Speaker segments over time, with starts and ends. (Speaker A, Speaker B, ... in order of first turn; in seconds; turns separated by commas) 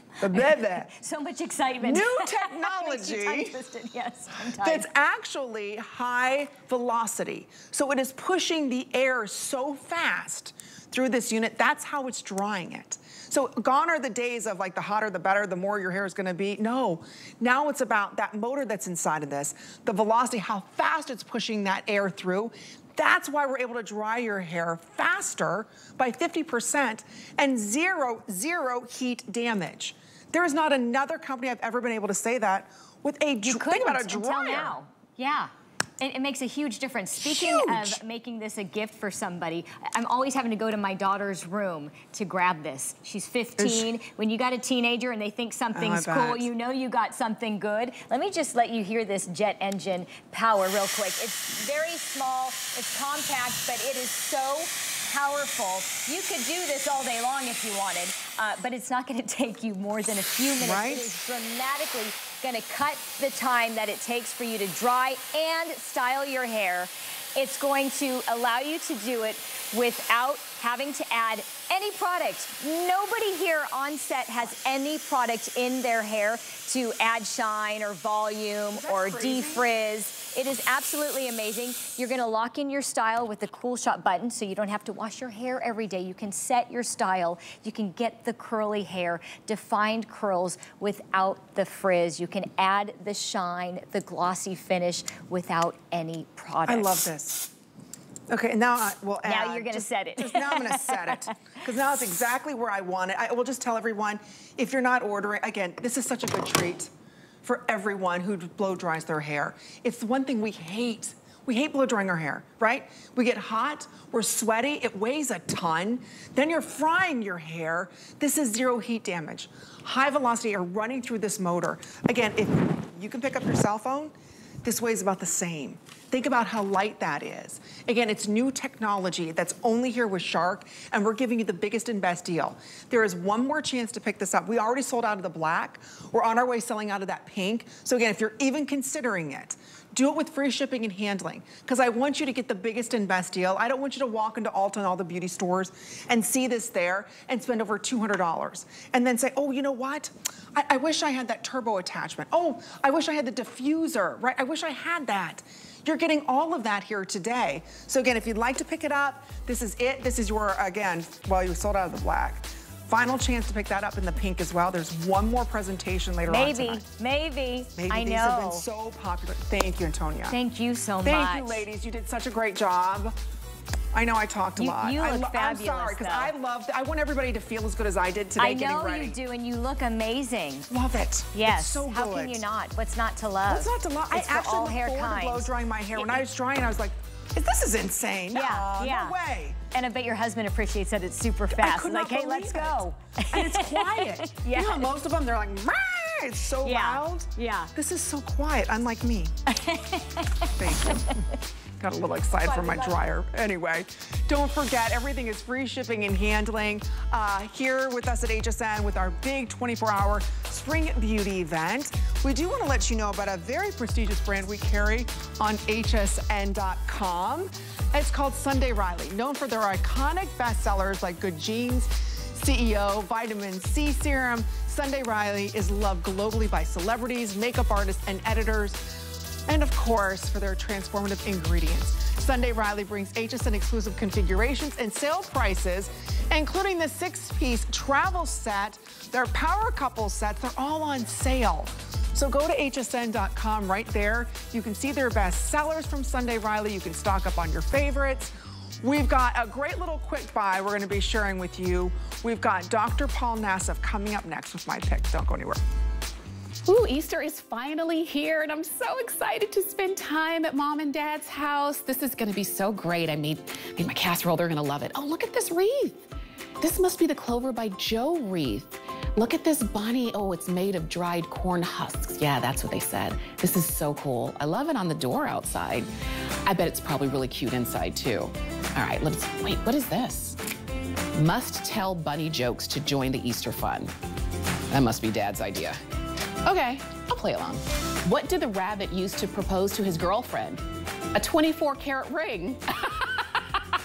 Speaker A: 0.2-0.9, Speaker B: 0.3-4.9, Speaker A: 1.8-3.6, Speaker A: 4.6-34.8, Speaker B: 33.4-97.1, Speaker A: 37.2-38.0, Speaker A: 43.6-43.9, Speaker A: 45.7-46.5, Speaker A: 60.6-61.1, Speaker A: 78.7-79.7, Speaker A: 96.7-97.5, Speaker A: 98.3-106.9, Speaker B: 99.2-101.2, Speaker A: 107.4-124.1, Speaker A: 124.6-166.8, Speaker B: 166.3-168.7, Speaker A: 167.8-170.4, Speaker B: 170.3-171.7, Speaker A: 171.0-173.2, Speaker A: 173.9-179.2, Speaker B: 174.6-176.3, Speaker B: 178.4-180.7, Speaker A: 180.7-182.4, Speaker B: 181.3-186.2, Speaker A: 183.5-189.6, Speaker B: 188.3-189.2, Speaker B: 189.7-194.9, Speaker A: 191.5-199.3, Speaker B: 196.6-197.7, Speaker B: 199.5-201.2, Speaker A: 200.6-201.2, Speaker A: 201.8-255.6, Speaker B: 202.4-203.0, Speaker C: 256.7-266.0, Speaker C: 266.6-275.9, Speaker C: 276.4-280.4, Speaker C: 281.1-283.9, Speaker C: 284.7-285.8, Speaker C: 286.4-293.3